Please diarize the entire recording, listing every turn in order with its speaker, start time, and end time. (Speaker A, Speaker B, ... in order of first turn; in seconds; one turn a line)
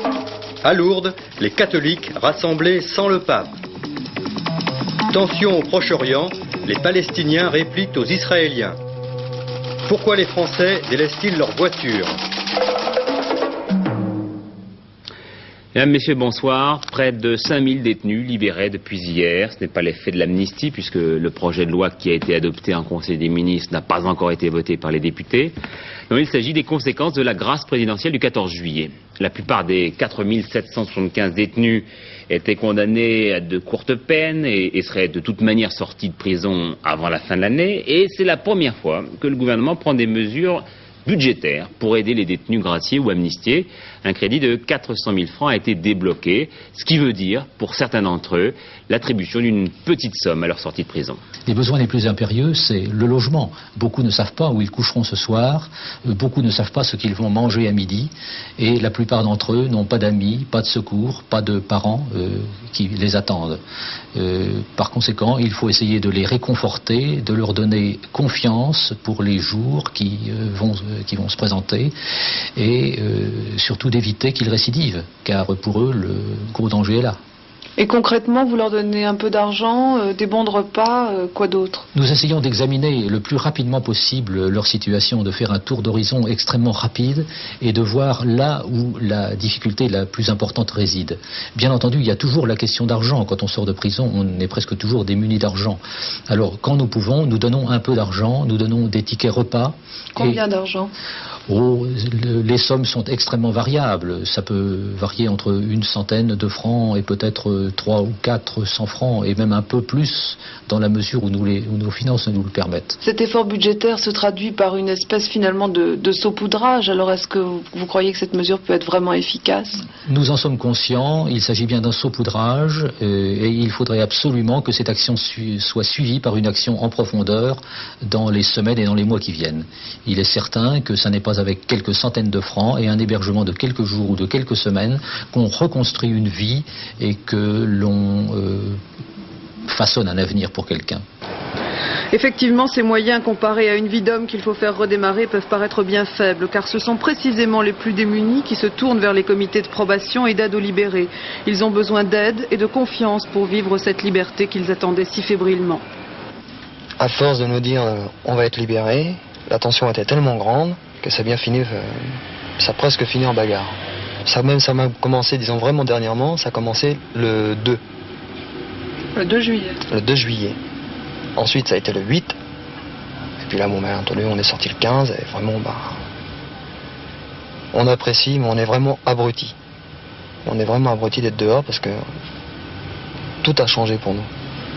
Speaker A: 0.6-3.5
Speaker A: 5.1-8.8
Speaker A: 9.9-12.2
Speaker B: 15.7-25.5
Speaker B: 26.1-51.2
Speaker C: 51.5-63.6
Speaker C: 64.2-71.9
Speaker C: 72.6-77.2
Speaker D: 77.8-81.9
Speaker C: 82.0-100.4
Speaker D: 100.2-100.9
Speaker C: 101.5-113.0
Speaker D: 113.0-119.8
Speaker C: 120.0-138.8
Speaker C: 139.7-141.0
Speaker D: 142.1-155.8
Speaker E: 157.0-167.8
Speaker D: 169.2-169.8
Speaker E: 169.9-170.6
Speaker E: 171.4-172.4
Speaker E: 173.4-176.0
Speaker E: 177.7-179.6
Speaker E: 180.4-182.1
Speaker E: 183.4-184.3